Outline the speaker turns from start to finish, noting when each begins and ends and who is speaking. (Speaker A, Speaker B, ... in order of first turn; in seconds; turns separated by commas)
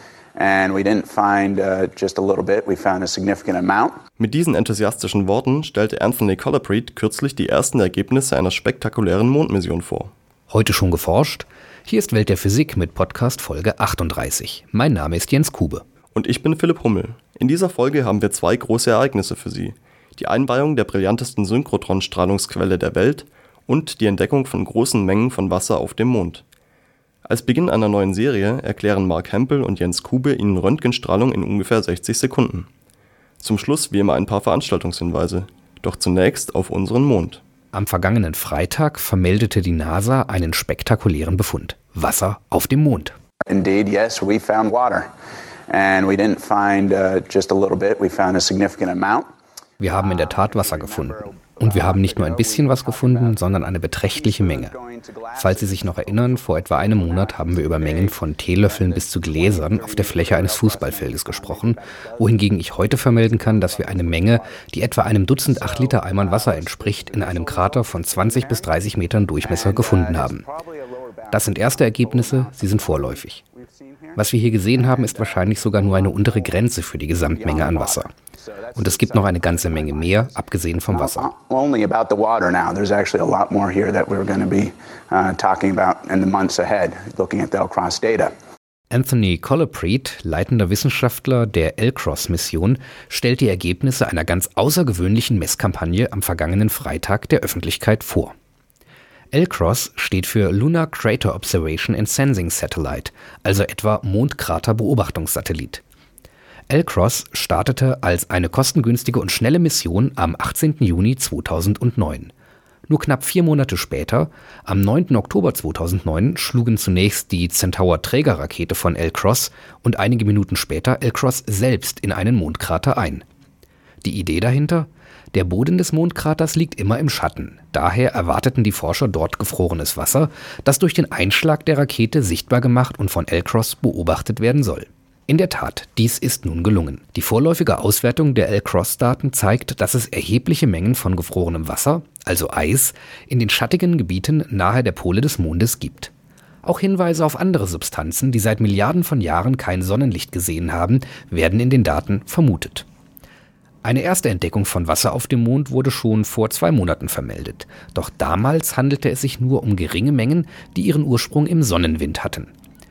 Speaker A: 0.3-4.0, Speaker B: 4.2-10.1, Speaker C: 10.5-15.8, Speaker B: 16.1-26.4, Speaker B: 27.3-32.7, Speaker B: 33.4-37.4, Speaker C: 37.7-43.1, Speaker A: 43.5-45.1, Speaker A: 45.7-49.3, Speaker C: 49.8-54.7, Speaker A: 49.9-53.4, Speaker A: 54.1-64.6, Speaker C: 55.3-70.4, Speaker A: 65.4-68.7, Speaker A: 69.4-76.6, Speaker C: 71.3-73.4, Speaker C: 74.1-78.1, Speaker A: 77.3-88.3, Speaker C: 78.7-81.3, Speaker C: 88.9-98.3, Speaker C: 99.3-105.8, Speaker C: 106.7-112.3, Speaker C: 112.9-123.2, Speaker C: 124.0-146.1, Speaker C: 146.6-152.8, Speaker C: 153.8-162.5